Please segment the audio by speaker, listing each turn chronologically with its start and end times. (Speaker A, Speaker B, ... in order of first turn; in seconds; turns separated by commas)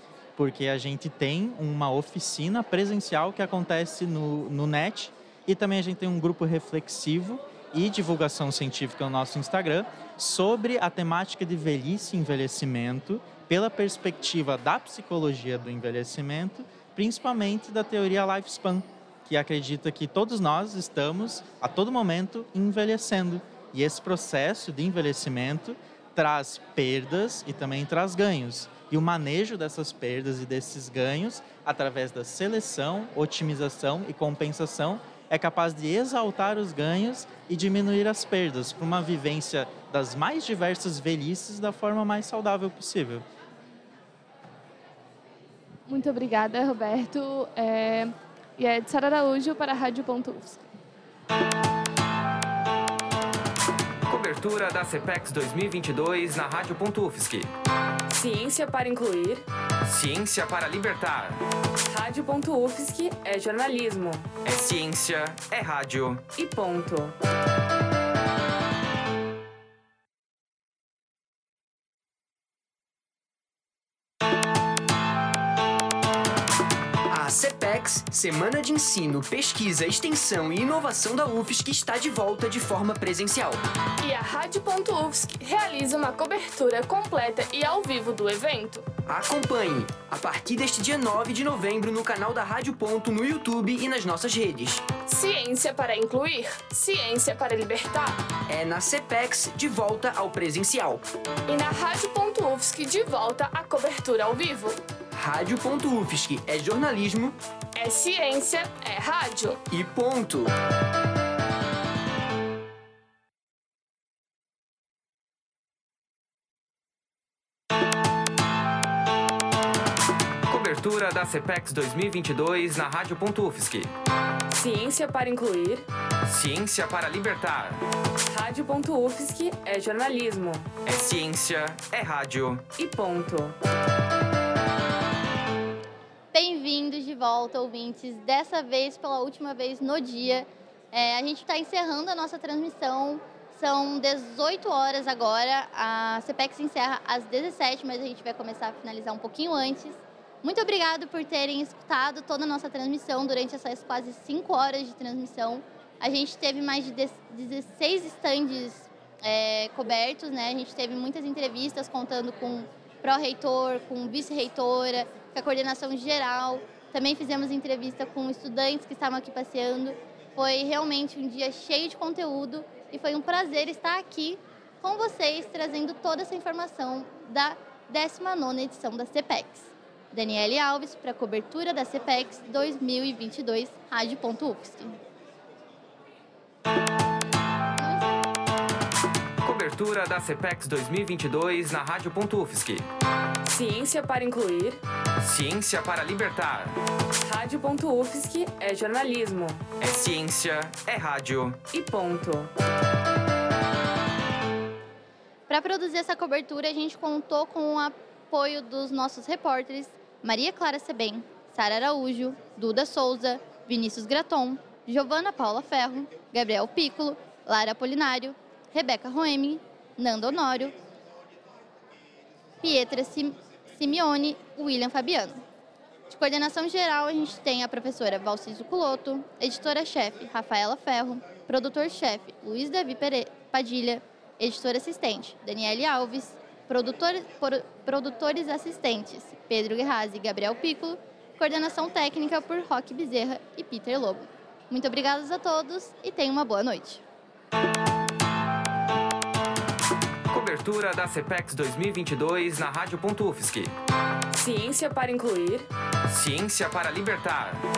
Speaker A: 0.4-43.2, Speaker B: 45.9-50.7, Speaker C: 54.1-57.5, Speaker D: 58.1-59.5, Speaker C: 59.8-61.4, Speaker D: 61.9-64.4, Speaker C: 64.4-66.3, Speaker D: 66.3-67.2, Speaker E: 77.1-83.6, Speaker F: 84.0-88.8, Speaker E: 89.0-94.9, Speaker F: 95.1-97.9, Speaker E: 98.5-101.0, Speaker F: 101.5-104.7, Speaker E: 105.1-107.4, Speaker F: 107.8-109.5, Speaker E: 109.7-110.5, Speaker C: 120.5-123.9, Speaker D: 124.5-125.9, Speaker C: 126.2-127.8, Speaker D: 128.3-130.8, Speaker C: 130.8-132.7, Speaker D: 132.8-133.6, Speaker G: 136.3-184.9, Speaker G: 187.8-188.2, Speaker C: 189.4-192.9, Speaker D: 193.4-194.8, Speaker C: 195.2-196.8, Speaker D: 197.2-199.7, Speaker C: 199.8-201.6, Speaker D: 201.7-202.5, Speaker G: 205.5-220.7, Speaker G: 222.6-225.4, Speaker G: 226.1-247.0, Speaker C: 250.3-253.7, Speaker D: 254.3-255.7, Speaker C: 256.0-257.7